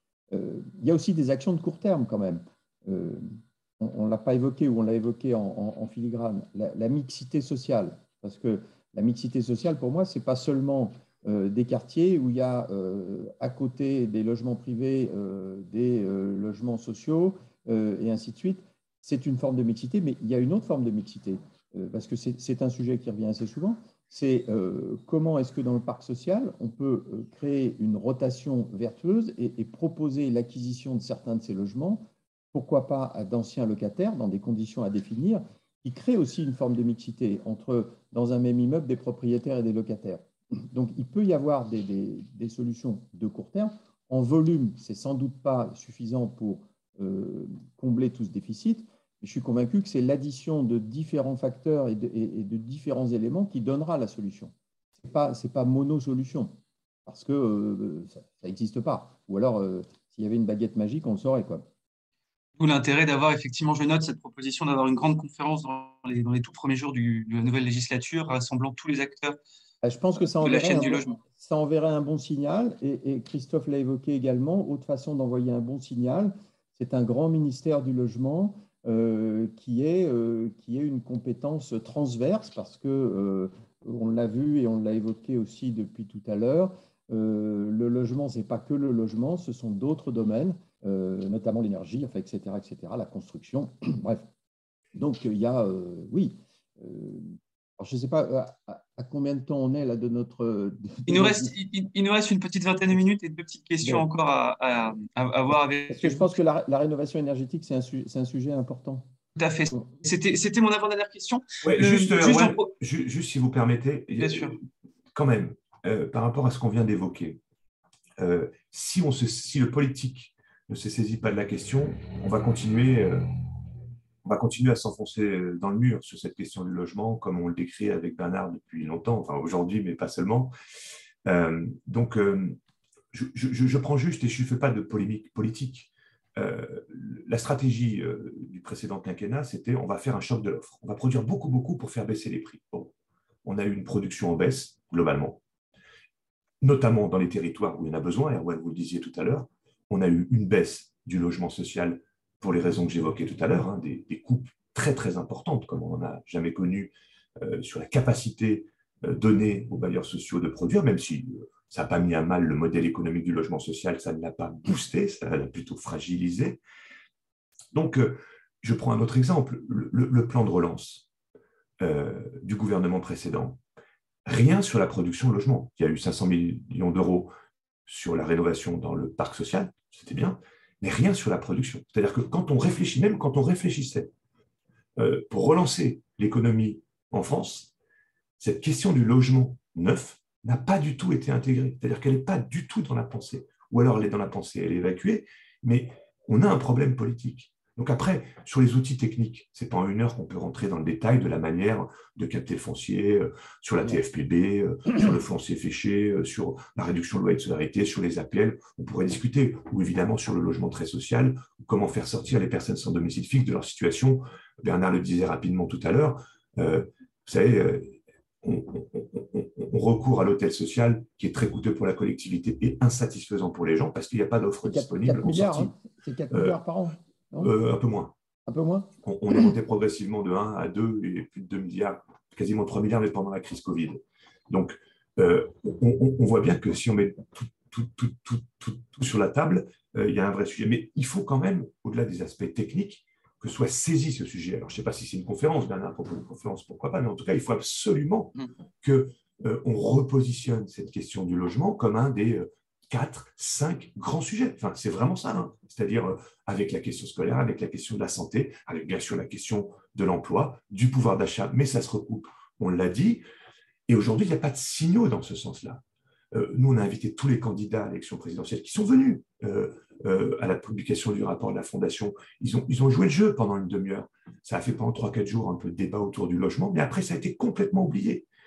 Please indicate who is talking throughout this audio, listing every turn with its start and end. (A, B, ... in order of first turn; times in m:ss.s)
0:00.3-0:56.5 A
0:57.0-1:01.6 A
1:02.6-1:09.4 B
1:09.8-1:34.2 A
1:10.4-1:11.2 B
1:34.9-1:41.5 A
1:41.1-1:46.3 B
1:45.9-1:49.1 A
1:49.4-1:52.7 B
1:51.6-1:54.6 C
1:54.2-1:54.5 B
1:55.1-1:57.4 C
1:58.2-2:03.2 C
2:04.2-2:10.5 C
2:11.2-2:12.6 C
2:13.1-2:22.9 C
2:23.4-2:25.4 C
2:26.6-2:46.6 C
2:47.7-2:51.1 C
2:51.8-2:53.6 C
2:54.2-2:57.3 C
2:57.9-3:04.1 C
3:05.0-3:07.7 C
3:08.4-3:45.8 C
3:44.6-3:47.5 A
3:46.3-3:46.6 C
3:47.4-3:48.1 C
3:48.4-3:48.9 A
3:49.0-4:23.2 C
4:23.9-4:38.2 C